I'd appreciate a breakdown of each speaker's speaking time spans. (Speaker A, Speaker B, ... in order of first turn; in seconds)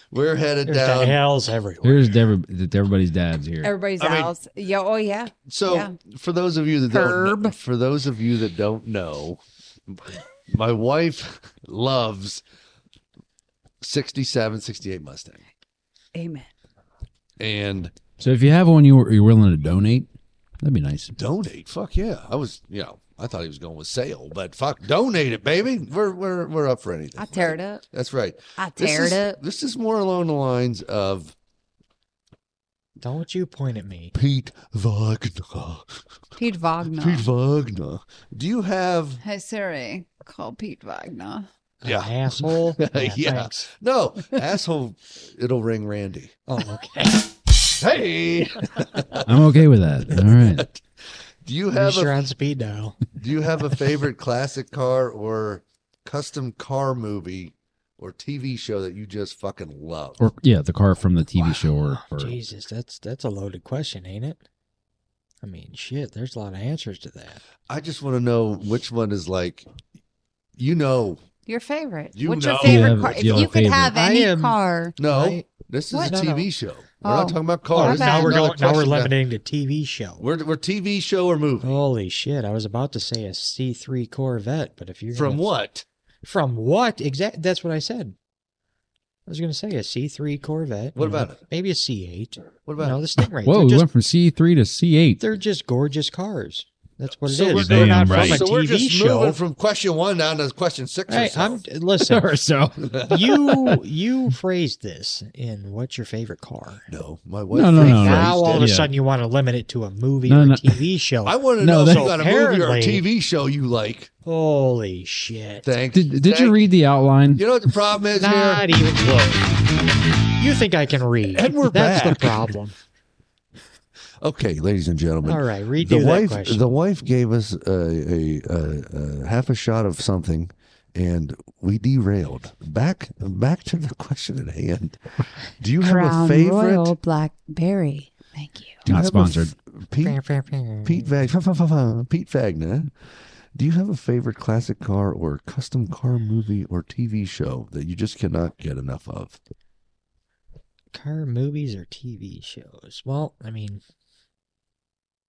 Speaker A: 0.1-1.2, 4.0-4.3, 5.5-12.4, 13.8-15.4, 17.4-17.9, 21.2-31.4, 34.1-36.1, 37.0-39.2, 41.8-46.3, 47.7-49.5, 50.2-50.8, 51.4-52.1, 53.1-60.2, 67.7-69.7, 70.6-71.2, 72.2-73.6, 75.0-79.2, 80.2-81.7, 85.1-85.8, 91.0-91.4, 92.7-93.0, 97.3-101.6, 106.9-108.7, 111.2-114.1, 115.6-116.6, 117.3-118.7, 121.3-122.5, 124.2-136.9, 138.9-140.2, 140.8-142.9, 143.6-149.4
Speaker B: 0.7-2.2, 33.0-34.1, 41.8-43.7, 46.5-47.3, 51.7-53.0, 61.4-64.4, 65.4-67.4, 73.9-76.5, 77.7-80.2, 81.6-85.5, 86.2-88.2, 89.3-93.9, 95.2-99.4, 101.1-102.3, 103.0-106.9, 107.7-113.0, 114.2-115.7, 118.2-119.5, 120.4-122.8, 125.2-126.7, 140.0-141.1, 150.9-153.8
Speaker C: 1.8-3.7, 18.2-20.1, 20.6-21.1, 49.2-50.7, 60.2-62.4, 72.6-73.9, 93.5-95.2, 97.5-98.5, 102.1-103.8, 107.5-108.9, 110.3-110.8, 111.6-112.1, 115.9-117.4, 138.9-139.5
Speaker D: 3.6-5.9, 6.9-7.5, 16.1-16.5, 27.2-27.8, 28.6-29.4, 36.4-37.3, 39.2-41.5, 71.5-75.0, 77.0-78.6, 135.8-138.8